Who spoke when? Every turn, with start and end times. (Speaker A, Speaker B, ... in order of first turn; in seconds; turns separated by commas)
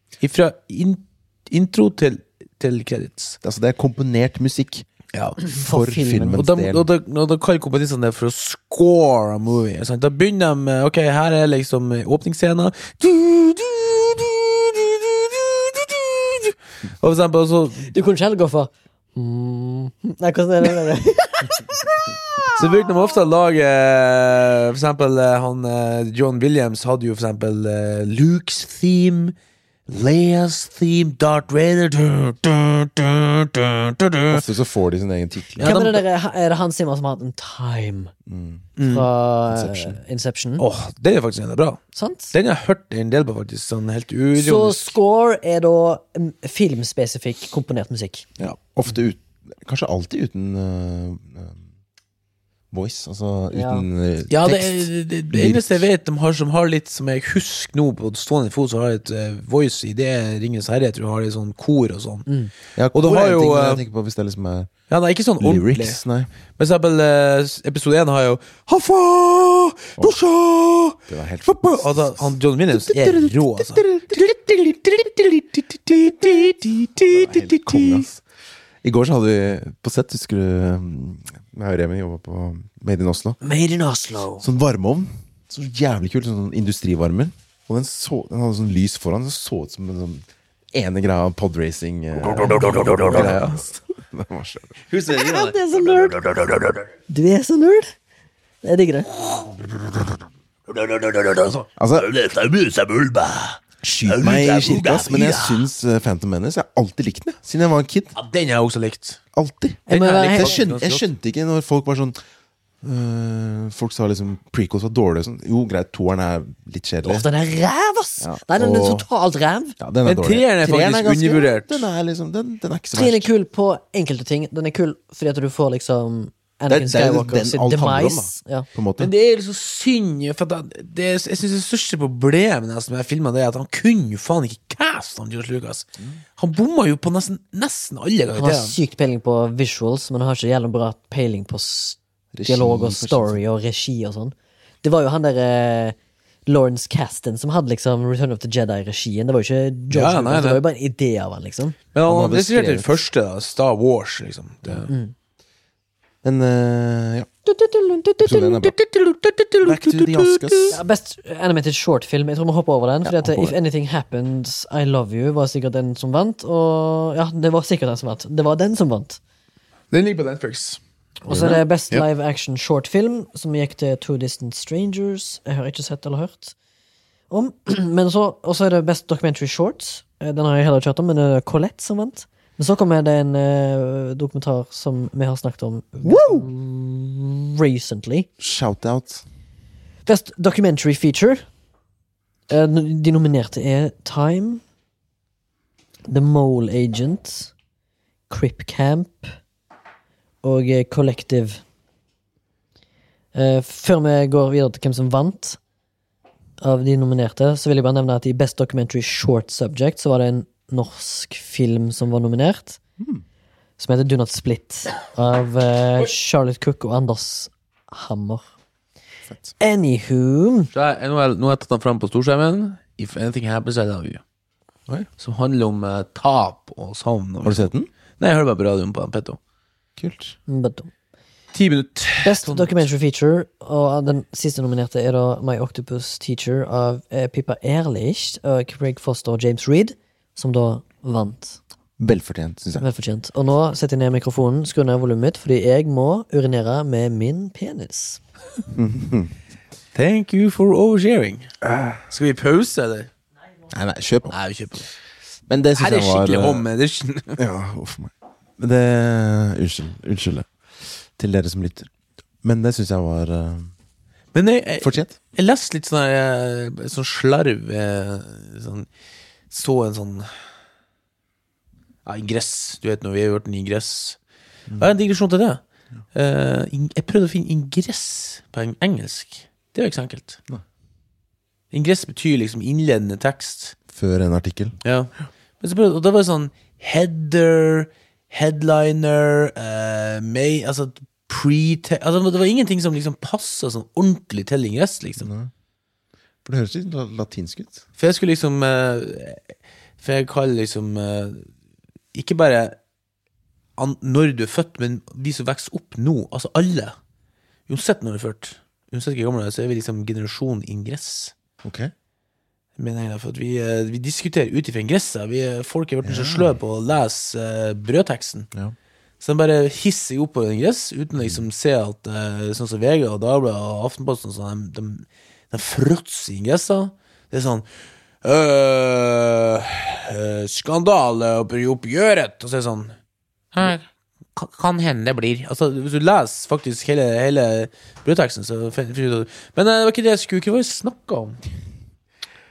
Speaker A: 0.2-3.4, Speaker B: 3.4-4.8, Speaker A: 5.1-5.4, Speaker C: 5.4-6.4, Speaker B: 5.5-6.9, Speaker A: 6.1-17.9, Speaker C: 17.9-22.6, Speaker A: 22.5-29.3, Speaker A: 29.9-34.4, Speaker B: 34.3-35.7, Speaker A: 35.6-36.0, Speaker C: 35.6-38.1, Speaker B: 38.3-38.7, Speaker A: 38.8-39.1, Speaker C: 38.8-40.6, Speaker B: 39.5-40.0, Speaker A: 40.6-45.0, Speaker C: 41.9-42.3, Speaker C: 44.4-48.3, Speaker B: 48.4-51.6, Speaker B: 52.7-55.9, Speaker C: 53.5-53.8, Speaker A: 54.3-62.3, Speaker B: 62.8-64.7, Speaker A: 62.9-63.8, Speaker A: 64.9-66.0, Speaker B: 65.4-66.3, Speaker A: 66.6-78.0, Speaker B: 71.1-74.3, Speaker B: 77.1-78.2, Speaker B: 78.8-83.4, Speaker C: 83.4-84.5, Speaker B: 84.4-94.8, Speaker A: 92.2-93.8, Speaker A: 94.9-96.9, Speaker C: 95.1-96.2, Speaker C: 97.1-97.9, Speaker C: 98.6-99.2, Speaker A: 99.3-100.1, Speaker A: 100.7-105.7, Speaker B: 101.8-102.1, Speaker B: 103.8-108.1, Speaker A: 108.2-109.2, Speaker B: 109.3-112.2, Speaker C: 109.9-110.6, Speaker A: 109.9-111.1, Speaker B: 112.8-117.3, Speaker C: 117.0-119.8, Speaker B: 118.2-119.0, Speaker B: 119.8-123.3, Speaker A: 120.0-121.9, Speaker C: 122.9-128.7, Speaker B: 126.7-129.1, Speaker A: 129.0-138.7, Speaker C: 138.3-145.9, Speaker B: 142.3-143.4, Speaker C: 146.5-151.8, Speaker A: 149.9-150.6, Speaker A: 151.9-154.9, Speaker B: 152.1-152.9, Speaker C: 154.9-155.1, Speaker B: 156.2-157.3, Speaker C: 157.5-158.2, Speaker B: 158.2-158.8, Speaker A: 158.4-160.8, Speaker B: 159.6-160.8, Speaker C: 160.7-169.2, Speaker B: 163.0-163.5, Speaker A: 169.9-170.8, Speaker C: 171.2-176.5, Speaker B: 171.3-171.6, Speaker A: 171.4-172.0, Speaker C: 177.3-188.3, Speaker B: 186.1-186.4, Speaker B: 188.4-189.2, Speaker C: 190.1-191.4, Speaker C: 192.5-194.6, Speaker C: 196.1-197.5, Speaker C: 198.3-199.3, Speaker C: 200.4-201.6, Speaker C: 203.3-205.6, Speaker C: 206.6-212.8, Speaker C: 213.8-218.5, Speaker C: 219.6-220.7, Speaker A: 220.7-224.2, Speaker A: 225.2-229.4, Speaker B: 227.4-227.9, Speaker B: 230.0-230.4, Speaker C: 230.5-230.9, Speaker A: 231.5-232.9, Speaker C: 232.2-241.6, Speaker B: 242.0-242.8, Speaker C: 242.8-248.2, Speaker B: 248.7-249.3, Speaker A: 249.9-251.5, Speaker B: 251.6-252.0, Speaker A: 252.1-253.1, Speaker B: 253.7-254.3, Speaker A: 254.3-254.9, Speaker B: 255.5-256.6, Speaker A: 255.8-257.4, Speaker B: 257.4-261.9, Speaker B: 262.4-263.7, Speaker A: 264.3-268.9, Speaker B: 264.8-265.1, Speaker A: 269.5-270.3, Speaker A: 272.0-274.2, Speaker A: 274.8-275.6, Speaker A: 276.1-280.4, Speaker A: 281.7-283.8, Speaker B: 283.9-284.8, Speaker A: 284.8-295.2, Speaker B: 295.2-295.5, Speaker B: 296.4-297.8, Speaker A: 298.0-299.4, Speaker A: 300.0-301.5, Speaker A: 302.1-302.8, Speaker A: 303.8-306.9, Speaker A: 307.7-311.3, Speaker B: 311.6-311.9, Speaker A: 312.8-318.5, Speaker B: 316.0-316.6, Speaker A: 319.2-327.6, Speaker B: 321.2-321.4, Speaker A: 328.2-332.9, Speaker A: 333.5-333.8, Speaker A: 334.4-341.4